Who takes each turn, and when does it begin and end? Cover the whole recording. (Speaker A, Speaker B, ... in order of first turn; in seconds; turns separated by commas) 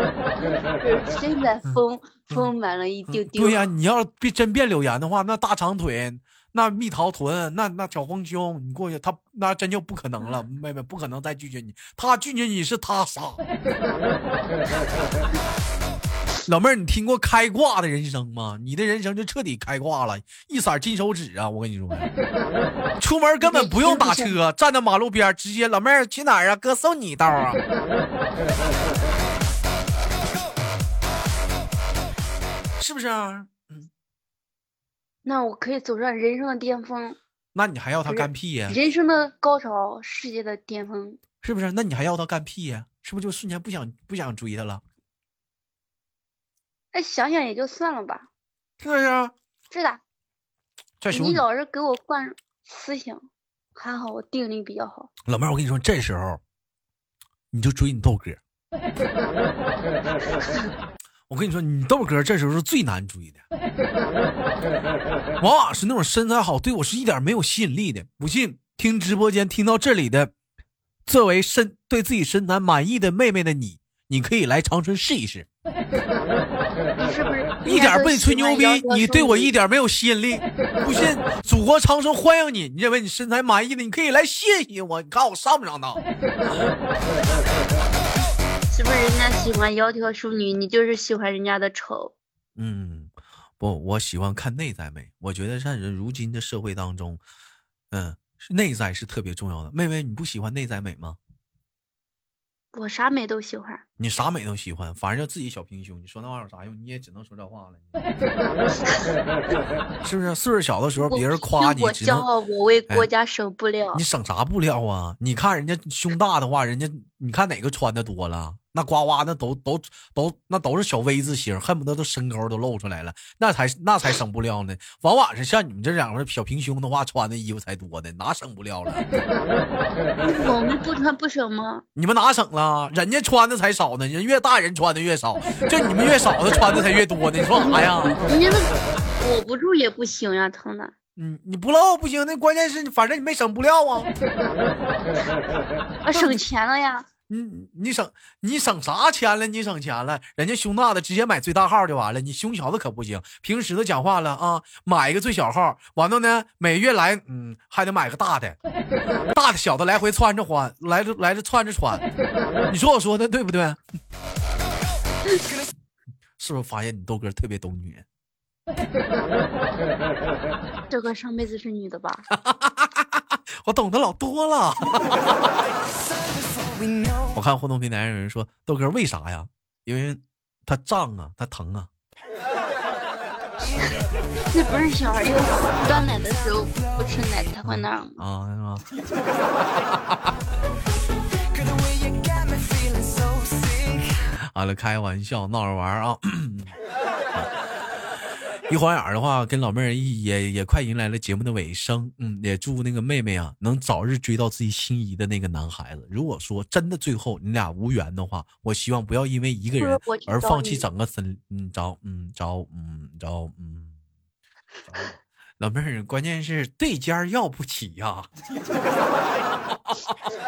Speaker A: 0.4-3.7, Speaker B: 1.6-2.5, Speaker B: 3.1-13.4, Speaker B: 16.4-22.1, Speaker B: 23.0-27.6, Speaker A: 23.4-24.3, Speaker B: 32.8-33.9, Speaker A: 35.2-37.2, Speaker B: 37.5-38.8, Speaker A: 38.0-41.2, Speaker B: 41.4-44.8, Speaker A: 46.9-48.3, Speaker B: 48.8-49.3, Speaker A: 49.7-50.0, Speaker B: 51.0-51.4, Speaker A: 51.1-55.1, Speaker B: 55.2-56.4, Speaker B: 57.5-58.4, Speaker B: 61.3-63.4, Speaker B: 65.4-70.3, Speaker B: 71.0-75.5, Speaker A: 77.0-79.5, Speaker B: 77.6-86.0, Speaker A: 88.7-92.1, Speaker B: 92.5-97.2, Speaker B: 97.9-101.2, Speaker A: 102.7-103.8, Speaker B: 104.0-107.9, Speaker B: 110.0-112.3, Speaker A: 111.0-114.0, Speaker B: 113.9-129.0, Speaker A: 130.2-131.8, Speaker B: 131.9-138.3, Speaker A: 137.6-140.9, Speaker B: 141.2-144.1, Speaker A: 146.0-147.1, Speaker B: 146.1-146.4, Speaker B: 147.3-158.6, Speaker B: 159.3-162.0, Speaker B: 162.7-163.8, Speaker B: 166.4-168.1, Speaker A: 170.9-172.3, Speaker B: 172.3-175.6, Speaker C: 175.9-177.3, Speaker B: 177.3-181.9, Speaker A: 184.5-188.2, Speaker B: 187.6-188.8, Speaker B: 189.6-190.3, Speaker C: 191.5-194.1, Speaker B: 194.5-196.8, Speaker B: 198.7-213.9, Speaker A: 209.8-210.8, Speaker B: 214.8-218.3, Speaker B: 219.7-220.1